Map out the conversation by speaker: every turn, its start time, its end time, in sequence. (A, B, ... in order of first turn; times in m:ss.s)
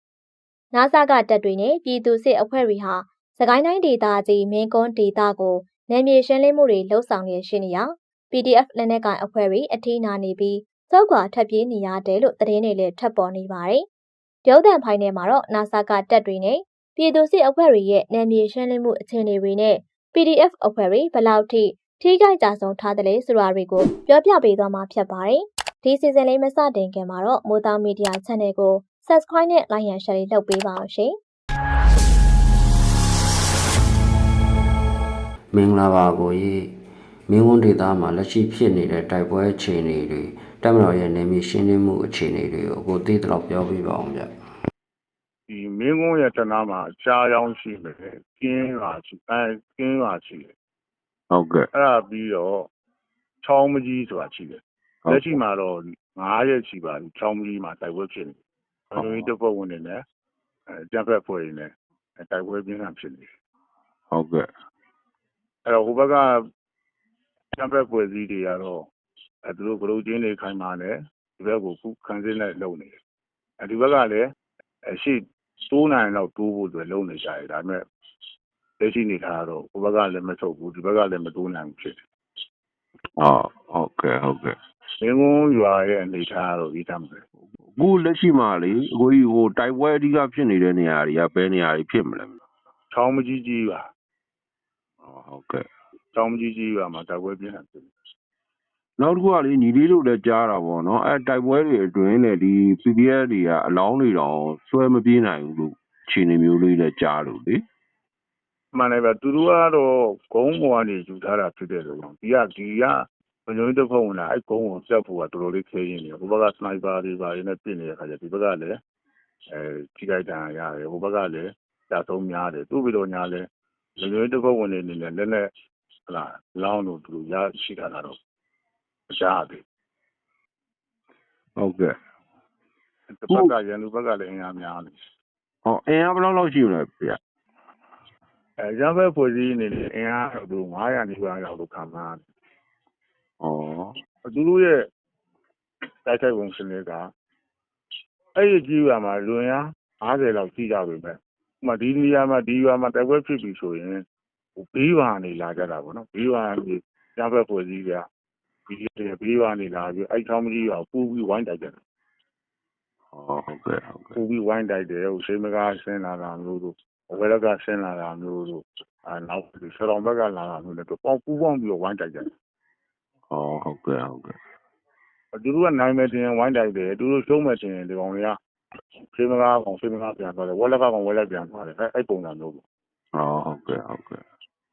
0:00.7-0:13.8 A
0:14.4-0:31.2 A
0:35.5-0:36.7 B
0:37.3-0:44.3 B
0:45.5-0:50.5 C
0:51.3-0:51.6 D
0:51.7-0:52.7 C
0:53.4-0:58.4 C
0:55.0-0:55.4 D
0:58.9-1:00.0 C
0:59.0-0:59.3 D
1:00.7-1:03.3 C
1:04.1-1:04.4 D
1:05.6-1:06.4 C
1:07.5-1:08.9 C
1:09.5-1:13.0 C
1:13.6-1:14.3 C
1:14.9-1:17.8 C
1:18.8-1:22.0 C
1:23.2-1:24.6 D
1:25.0-1:27.2 C
1:27.8-1:32.3 D
1:32.9-1:33.9 C
1:35.0-1:35.6 D
1:36.1-1:37.9 C
1:39.0-1:47.6 D
1:48.7-1:58.8 C
1:59.5-2:05.5 C
2:06.1-2:08.2 C
2:09.1-2:09.6 C
2:11.6-2:11.9 D
2:13.1-2:15.0 C
2:13.3-2:13.6 D
2:15.6-2:17.2 D
2:18.6-2:22.2 C
2:23.4-2:24.0 D
2:24.2-2:24.9 C
2:26.1-2:27.1 C
2:28.4-2:34.0 C
2:34.6-2:38.1 C
2:38.7-2:41.8 C
2:43.1-2:44.2 D
2:44.2-2:52.3 C
2:53.3-2:54.3 D
2:55.3-2:58.4 C
2:59.1-3:02.6 C
3:03.2-3:04.2 D